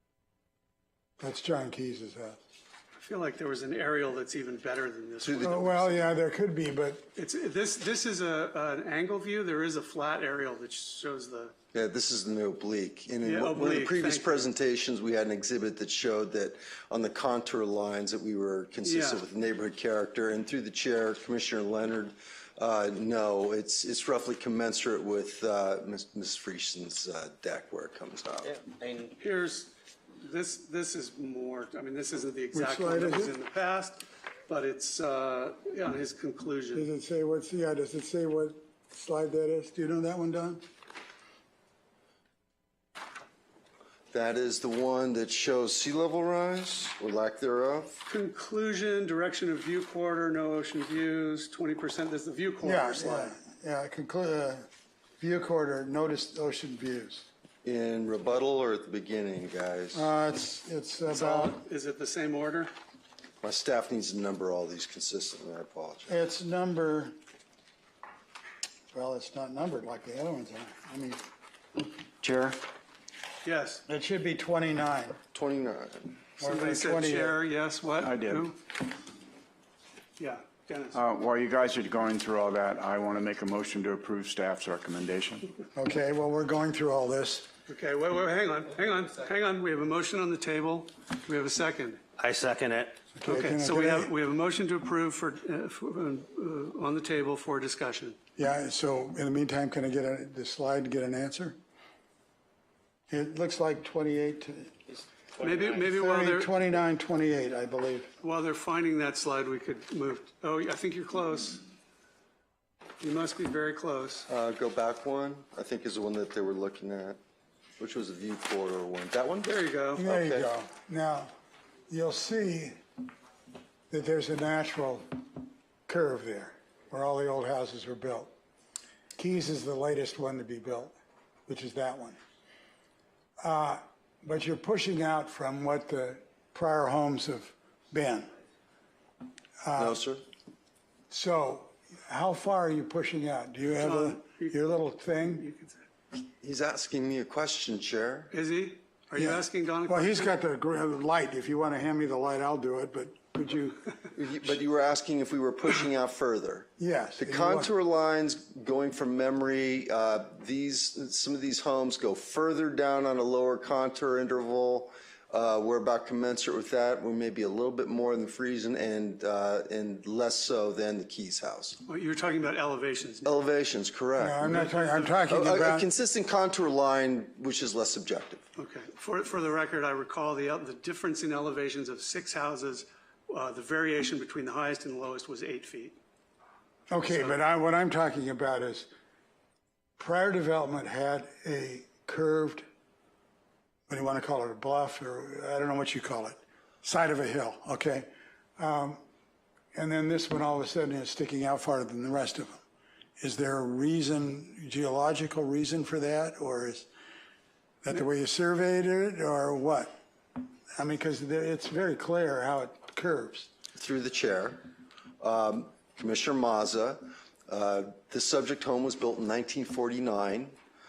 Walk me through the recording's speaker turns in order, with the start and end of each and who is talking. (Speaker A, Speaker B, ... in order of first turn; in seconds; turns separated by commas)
Speaker A: 1.2-2.4, Speaker B: 3.0-6.0, Speaker C: 5.2-5.6, Speaker A: 5.4-7.1, Speaker B: 7.2-11.5, Speaker C: 11.7-28.6, Speaker B: 13.2-14.4, Speaker B: 18.8-19.2, Speaker D: 28.4-29.1, Speaker B: 29.2-36.9, Speaker A: 32.5-33.3, Speaker A: 36.7-40.6, Speaker C: 44.1-47.9, Speaker B: 48.0-53.4, Speaker A: 52.6-54.6, Speaker A: 55.2-57.3, Speaker C: 57.6-60.1, Speaker A: 59.9-61.6, Speaker B: 61.1-62.7, Speaker C: 63.4-66.2, Speaker A: 66.1-67.1, Speaker A: 68.9-71.2, Speaker E: 72.2-72.5, Speaker B: 73.4-73.8, Speaker A: 73.9-75.2, Speaker C: 75.3-76.2, Speaker A: 76.4-77.4, Speaker B: 76.4-78.6, Speaker E: 78.0-78.5, Speaker B: 80.2-81.0, Speaker E: 80.9-85.5, Speaker A: 85.7-87.5, Speaker B: 87.7-92.0, Speaker D: 92.2-93.0, Speaker A: 93.1-94.1, Speaker B: 93.2-98.2, Speaker A: 98.4-101.5, Speaker A: 103.1-104.8, Speaker D: 105.4-105.8, Speaker B: 105.4-106.5, Speaker A: 105.8-108.1, Speaker B: 108.2-111.6, Speaker B: 113.0-114.3, Speaker C: 114.3-117.2, Speaker C: 117.8-120.5, Speaker B: 119.4-120.0, Speaker A: 120.0-121.3, Speaker A: 121.9-122.8, Speaker A: 123.9-125.0, Speaker A: 125.9-128.3, Speaker A: 129.2-130.9, Speaker A: 131.5-132.2, Speaker A: 133.4-138.3, Speaker A: 139.6-140.0, Speaker C: 139.8-140.2, Speaker A: 141.1-145.5, Speaker B: 143.8-144.6, Speaker B: 145.1-145.8, Speaker C: 146.4-148.3, Speaker B: 148.3-150.3, Speaker A: 149.2-153.9, Speaker C: 154.1-171.8, Speaker A: 156.8-157.7, Speaker B: 171.9-173.4, Speaker C: 173.2-174.6, Speaker A: 174.2-175.9, Speaker B: 174.4-175.2, Speaker C: 175.3-178.4, Speaker B: 178.6-186.0, Speaker A: 186.9-188.9, Speaker B: 187.1-187.4, Speaker A: 190.0-192.6, Speaker A: 193.9-199.0, Speaker A: 199.7-202.6, Speaker A: 203.2-206.9, Speaker A: 207.8-209.9, Speaker A: 210.8-213.5, Speaker C: 213.7-214.6, Speaker C: 215.2-220.5